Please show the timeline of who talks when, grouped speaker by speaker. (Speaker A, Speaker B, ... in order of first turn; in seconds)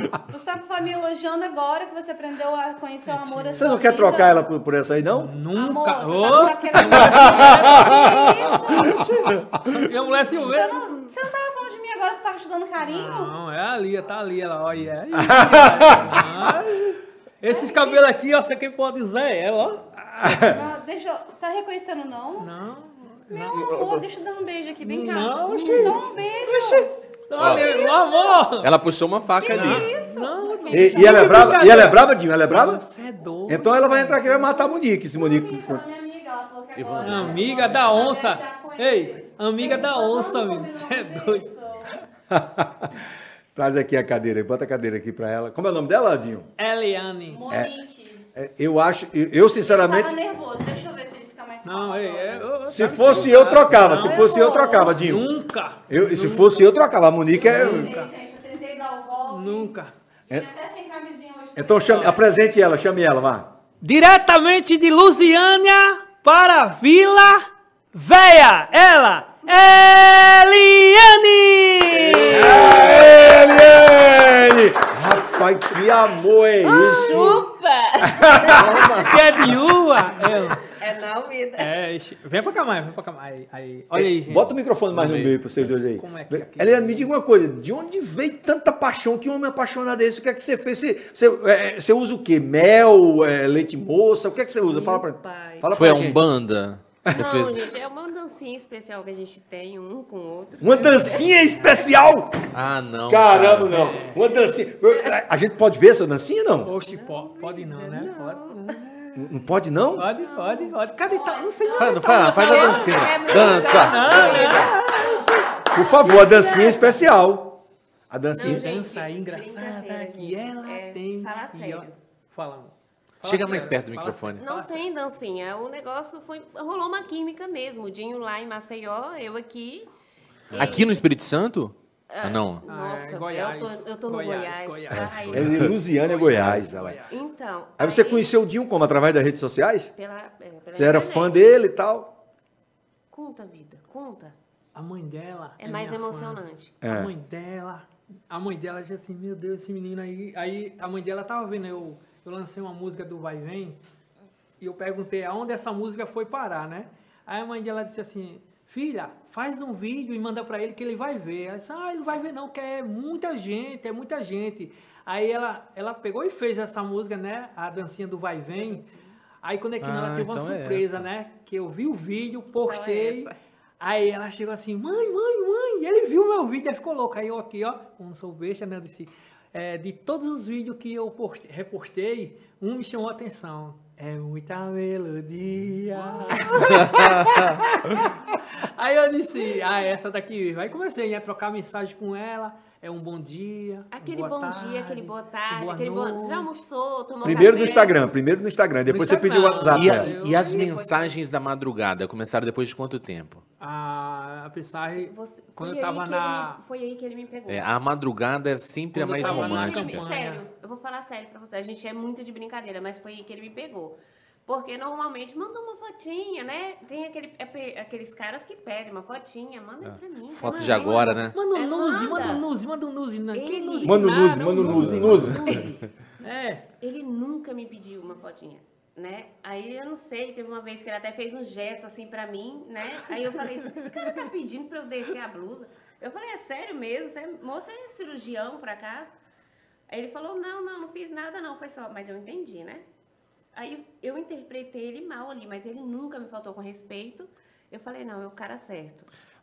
Speaker A: 0.3-4.4, 5.5-9.1, 10.1-13.3, 17.5-18.0, 20.3-22.5, 23.3-28.5, 29.5-31.7, 35.1-41.9, 47.3-48.3, 49.6-52.5, 53.8-55.0, 57.4-59.8, 60.3-62.2, 111.1-112.3
Speaker B: 3.1-3.7, 5.2-11.0, 12.8-19.9, 22.4-23.6, 24.8-28.7, 29.5-34.6, 37.0-41.5, 46.6-47.5, 51.6-56.7, 57.4-58.1, 59.3-59.9, 61.9-62.2, 63.8-73.0, 79.0-80.7, 81.6-84.6, 86.0-87.1, 103.7-104.3, 106.6-109.3, 110.0-115.5, 116.0-117.0, 118.4-124.8, 132.7-135.2, 135.9-137.1, 144.8-153.8, 154.6-168.9, 169.4-196.6, 198.9-200.6, 203.6-206.6, 208.9-210.4, 221.3-226.7
Speaker C: 3.5-5.4, 6.8-7.7, 15.2-16.5, 20.0-20.6, 30.7-32.8, 33.5-35.8, 42.3-46.5, 47.5-47.8, 48.3-50.1, 52.7-55.3, 55.9-57.9, 61.5-63.5, 72.0-77.5, 78.0-79.6, 83.9-96.2, 100.6-102.5, 103.1-106.7, 109.2-110.1, 114.0-114.9, 115.7-118.7, 135.3-137.0, 137.8-139.9, 140.7-142.2, 146.8-147.1, 197.2-200.1, 223.8-225.7
Speaker D: 23.5-24.1, 27.4-27.9, 28.6-29.9, 36.8-38.0, 84.9-85.7, 95.7-97.7, 102.5-103.7, 111.8-114.3, 123.2-124.4, 130.5-132.6, 134.9-135.7, 136.3-136.6, 169.8-171.1, 186.8-187.4, 199.7-203.4, 207.5-210.1, 219.8-221.4
Speaker E: 29.4-30.2, 71.9-74.2, 76.6-79.6, 80.2-81.7, 94.7-95.7, 97.1-101.3, 106.8-108.6, 110.2-110.7, 112.4-115.3, 118.3-122.0, 124.4-129.9, 130.5-131.1, 132.1-135.7, 137.1-138.3, 139.9-141.6, 143.1-144.4, 145.6-146.8, 168.5-169.2, 172.6-173.4, 186.3-186.8, 193.9-198.0, 199.9-201.2, 204.9-207.7, 209.2-222.5, 223.3-225.9, 226.8-239.1, 239.9-242.8, 243.5-249.1